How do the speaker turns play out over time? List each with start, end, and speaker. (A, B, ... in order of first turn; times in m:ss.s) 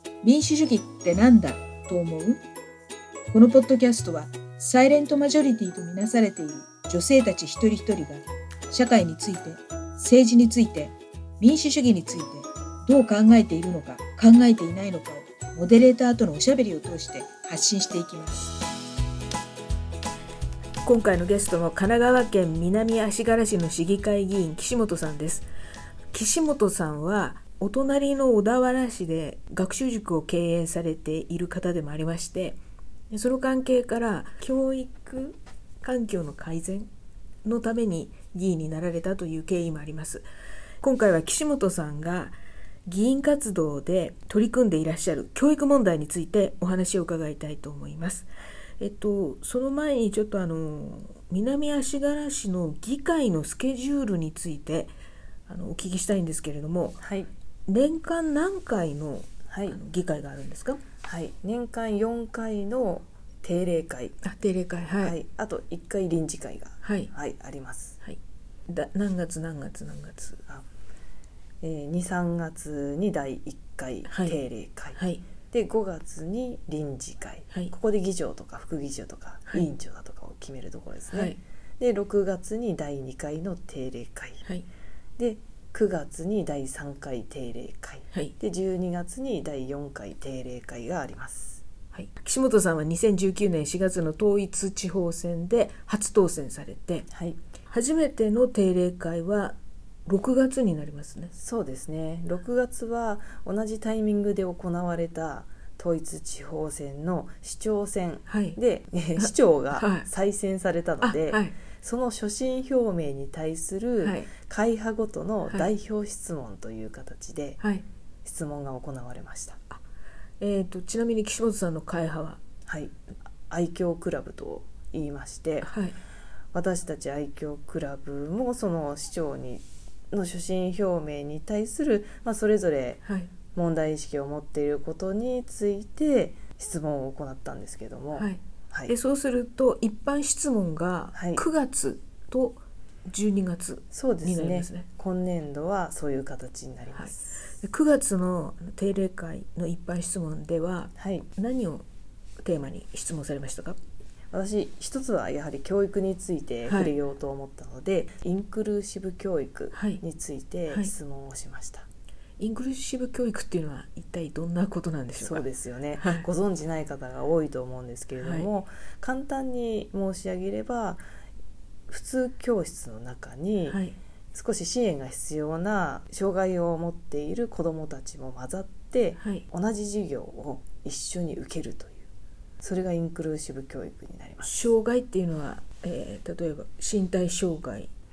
0:00.2-0:02.4 A
0:03.3-0:18.6 A
0:20.8-0:25.5 B
0:26.1-0:32.6 B
0:33.1-0:36.9 B
0:37.4-0:40.3 B
0:40.8-0:42.4 B
0:42.9-0:54.9 B
0:55.5-0:57.0 B
0:57.0-0:57.3 C
0:57.7-1:00.8 B
0:59.5-0:59.8 C
1:01.0-1:04.2 C
1:04.2-1:05.2 B
1:05.0-1:08.0 C
1:06.8-1:07.1 B
1:08.7-1:10.4 B
1:11.6-1:24.4 C
1:14.1-1:14.4 B
1:15.0-1:15.2 B
1:21.1-1:21.4 B
1:25.2-1:31.6 C
1:31.9-1:37.1 B
1:37.1-1:37.4 C
1:37.7-1:41.3 B
1:41.3-1:57.6 C
1:48.3-1:48.6 B
1:49.2-1:50.1 B
1:51.0-1:51.6 B
1:54.0-1:54.3 B
1:57.6-1:57.8 B
1:58.2-1:59.6 C
2:00.4-2:02.4 B
2:02.7-2:05.7 C
2:05.6-2:06.0 B
2:06.5-2:13.0 C
2:13.0-2:13.3 B
2:13.5-2:19.0 C
2:18.1-2:24.9 B
2:21.1-2:21.5 C
2:23.9-2:27.4 C
2:27.0-2:31.9 B
2:31.0-2:31.3 C
2:32.4-2:33.8 B
2:34.3-2:41.9 C
2:39.7-2:40.0 B
2:42.4-2:45.4 B
2:45.2-2:51.0 C
2:46.0-2:46.3 B
2:48.2-2:48.5 B
2:51.9-2:53.8 C
2:53.7-2:54.0 B
2:54.3-3:02.1 C
2:59.2-2:59.4 B
3:02.6-3:04.7 C
3:04.4-3:07.9 B